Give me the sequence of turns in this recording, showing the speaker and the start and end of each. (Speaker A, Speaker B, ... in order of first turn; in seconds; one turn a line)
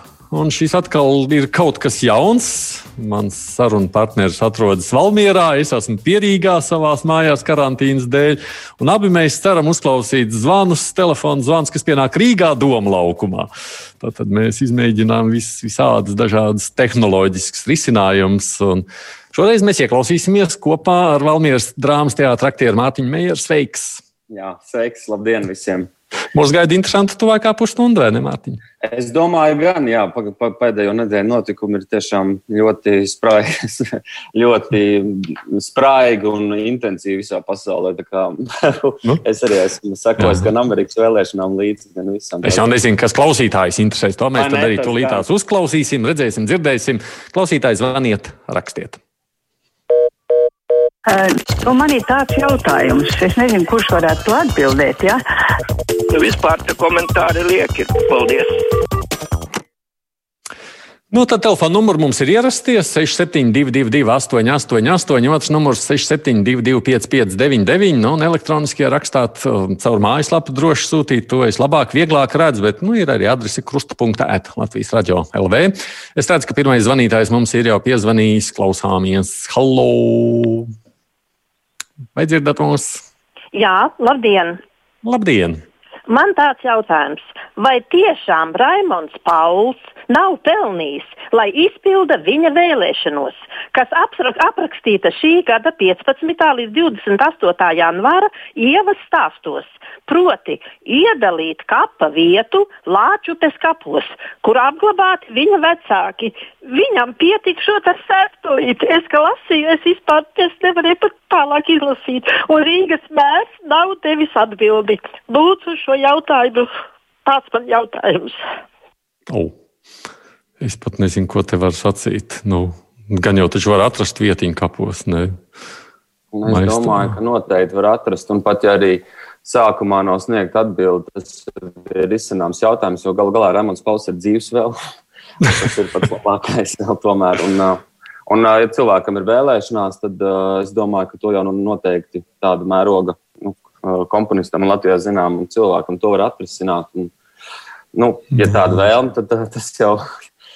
Speaker A: 0.3-24.0
Speaker B: 24.3-25.9
Speaker A: 26.4-28.6
Speaker B: 28.8-42.7
Speaker A: 40.2-40.5
Speaker A: 42.4-49.0
Speaker B: 44.4-45.3
Speaker C: 51.0-55.2
Speaker D: 56.1-58.5
Speaker A: 61.1-80.7
Speaker A: 82.2-83.0
Speaker E: 83.5-84.6
Speaker A: 85.0-85.6
Speaker E: 86.1-116.7
Speaker E: 117.2-118.4
Speaker A: 119.3-119.5
Speaker A: 120.6-125.4
Speaker B: 126.3-134.8
Speaker A: 126.5-127.2
Speaker B: 135.4-147.1
Speaker B: 147.9-150.0
Speaker A: 148.4-148.7